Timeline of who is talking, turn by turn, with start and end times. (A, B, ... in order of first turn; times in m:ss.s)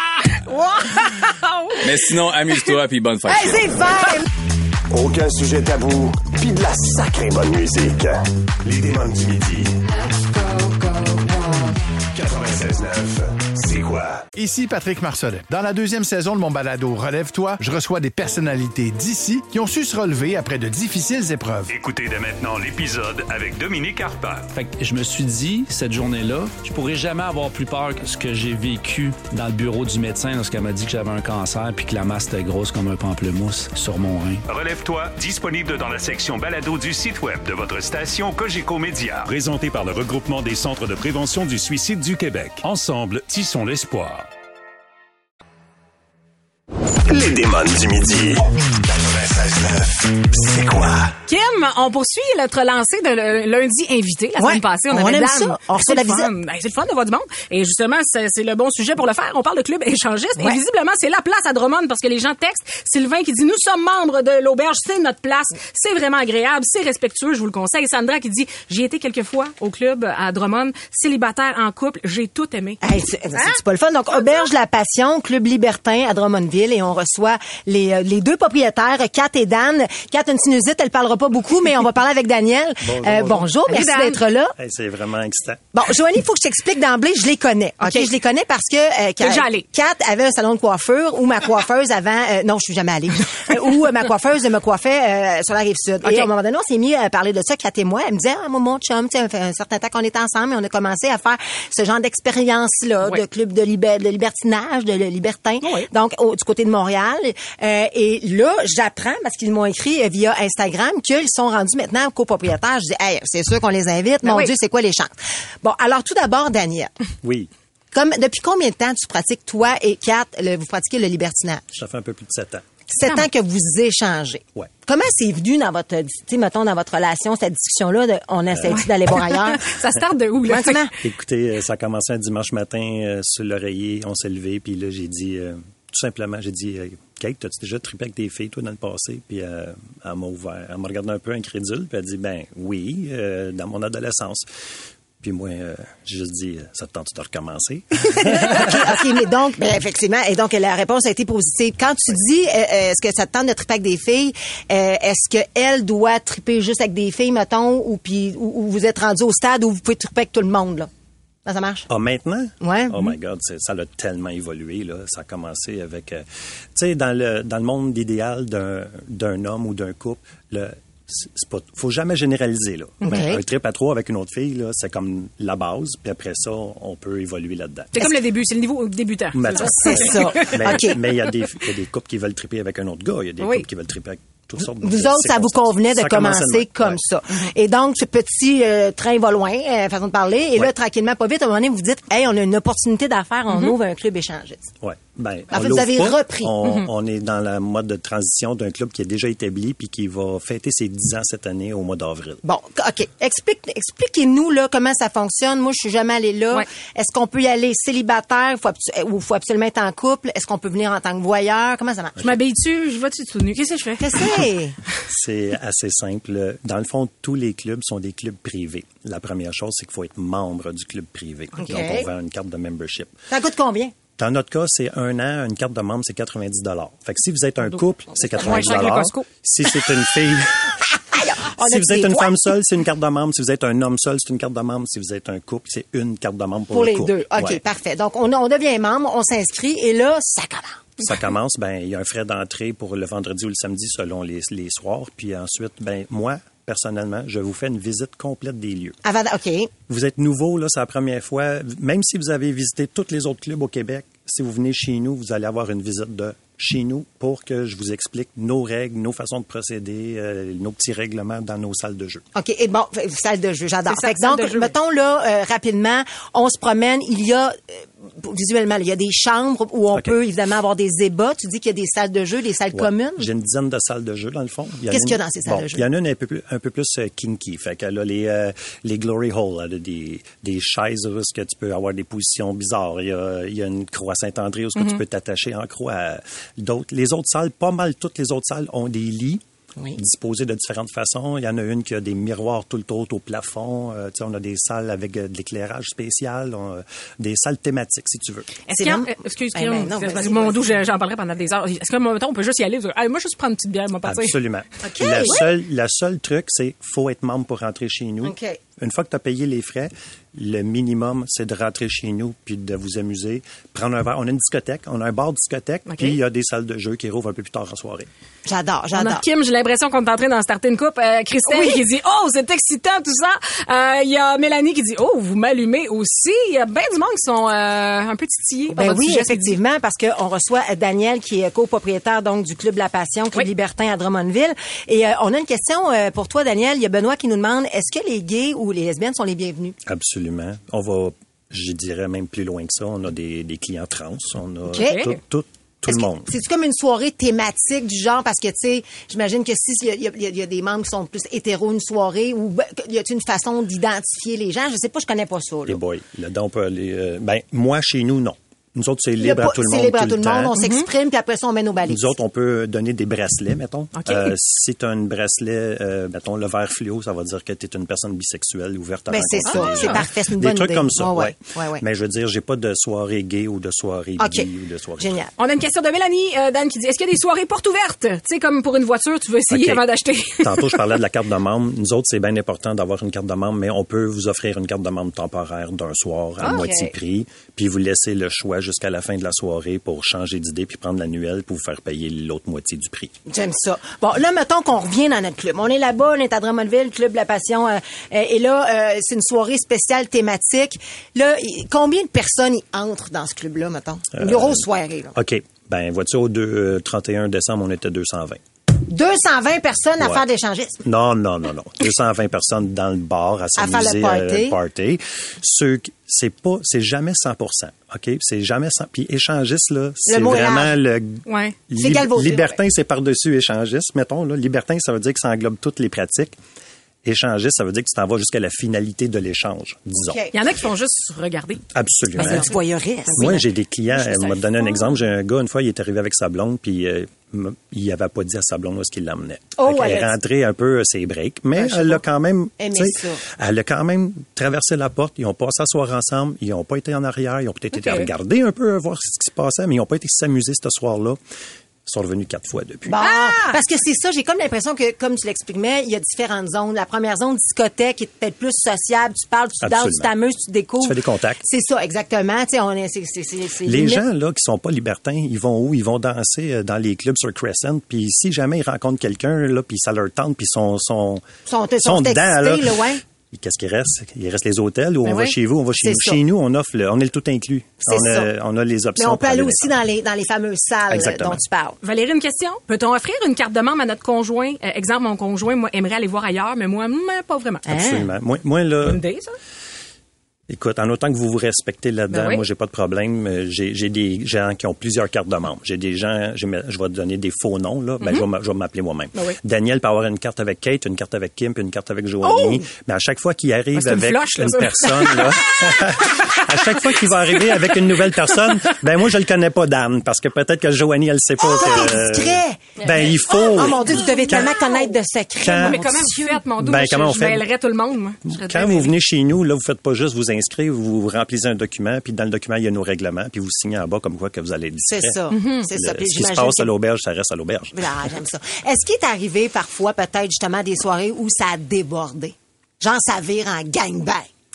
0:00.4-0:01.4 A
0:01.4-0:01.8 B
0:01.8-0:03.9 C
0:03.3-0:04.3 A
0:04.9-0:14.2 D
0:14.4-0:21.7 E
0:21.7-0:24.5 F
0:24.5-0:34.4 G
0:34.5-0:44.3 F
0:47.1-0:51.1 D
0:51.3-1:12.8 B
0:54.4-0:56.3 A
1:12.8-1:24.6 A
1:13.4-1:13.6 B
1:22.8-1:23.5 H
1:23.7-1:24.2 B
1:24.6-1:25.6 H
1:25.7-1:56.9 A
1:27.8-1:28.1 B
1:29.2-1:29.7 B
1:36.0-1:36.3 B
1:45.6-1:45.9 B
1:54.2-1:54.5 B
1:57.2-1:57.5 H
1:57.9-2:01.6 A
2:01.7-2:02.7 H
2:02.9-2:09.7 A
2:08.5-2:08.8 H
2:08.7-2:10.8 B
2:10.5-2:11.0 A
2:11.0-2:24.5 H
2:25.2-2:28.9 H
2:28.2-2:40.9 A
2:41.5-2:41.9 A
2:41.9-2:58.1 H
2:42.6-2:43.2 A
2:53.0-2:53.4 A
2:57.9-3:00.6 B
2:59.3-3:07.0 H
2:59.6-3:01.0 A
3:04.6-3:14.7 A
3:13.5-3:13.8 B
3:14.8-3:22.4 H
3:15.5-3:16.5 A
3:16.6-3:16.9 B
3:22.4-3:32.2 A
3:32.2-3:34.4 B
3:34.0-3:34.8 A
3:35.1-3:43.2 H
3:41.6-3:42.1 A
3:43.3-3:44.0 A
3:44.2-3:50.8 H
3:48.4-3:48.8 A
3:48.4-3:49.2 B
3:51.1-3:52.5 A
3:51.6-3:57.6 H
3:56.7-4:01.1 A
4:01.0-4:09.0 H
4:09.0-4:09.7 A
4:09.9-4:22.2 H
4:22.4-4:33.3 A
4:23.9-4:24.7 B
4:32.7-4:49.4 H
4:34.9-4:35.9 A
4:50.0-4:58.6 H
4:58.7-5:04.4 B
4:58.7-5:00.8 A
5:04.0-5:18.1 H
5:04.8-5:05.4 A
5:08.2-5:08.6 A
5:15.9-5:16.2 B
5:18.5-5:19.2 A
5:18.9-5:29.5 B
5:21.4-5:21.8 A
5:28.7-5:39.8 A
5:39.8-5:46.3 H
5:44.7-5:45.2 B
5:44.7-5:45.0 A
5:45.9-5:55.8 A
5:55.7-6:00.6 H
5:59.2-6:02.1 A
6:00.6-6:00.9 B
6:01.9-6:15.2 H
6:03.9-6:04.3 B
6:09.1-6:11.8 A
6:09.5-6:10.0 B
6:14.2-6:14.5 A
6:15.0-6:15.3 A
6:15.4-6:21.0 B
6:19.5-6:33.1 H
6:26.4-6:26.9 B
6:33.3-6:45.2 A
6:44.2-6:48.4 H
6:48.9-6:50.8 A
6:50.8-7:06.4 H
6:53.6-6:54.6 A
7:00.1-7:00.8 A
7:01.3-7:01.6 B
7:01.8-7:02.6 A
7:07.0-7:10.2 H
7:10.0-7:10.4 A
7:10.3-7:11.6 B
7:11.7-7:12.6 H
7:12.2-7:13.5 A
7:12.2-7:12.6 B
7:13.1-7:13.4 B
7:13.2-7:31.2 H
7:14.1-7:14.7 B
7:19.6-7:20.1 A
7:21.6-7:22.0 A
7:22.6-7:23.2 A
7:27.8-7:28.1 B
7:31.8-7:33.0 H
7:32.9-7:44.0 A
7:33.0-7:33.6 B
7:39.6-7:40.1 H
7:40.8-7:41.4 H
7:43.6-7:51.3 H
7:51.5-7:53.0 A
7:51.8-7:59.8 H
7:55.1-7:55.3 B
7:55.8-7:56.2 A
7:57.8-7:58.3 A
7:59.0-8:01.8 A
8:00.9-8:01.4 H
8:01.8-8:07.7 B
8:07.7-8:09.0 H
8:07.7-8:08.1 A
8:08.8-8:09.4 B
8:10.5-8:34.6 H
8:12.1-8:12.4 B
8:22.2-8:22.7 B
8:23.8-8:28.4 B
8:31.4-8:32.8 A
8:33.5-8:36.4 A
8:35.4-8:37.5 H
8:35.6-8:38.9 B
8:38.2-8:45.2 H
8:44.8-8:46.7 A
8:45.3-8:45.7 B
8:45.7-8:47.9 H
8:47.7-8:54.3 A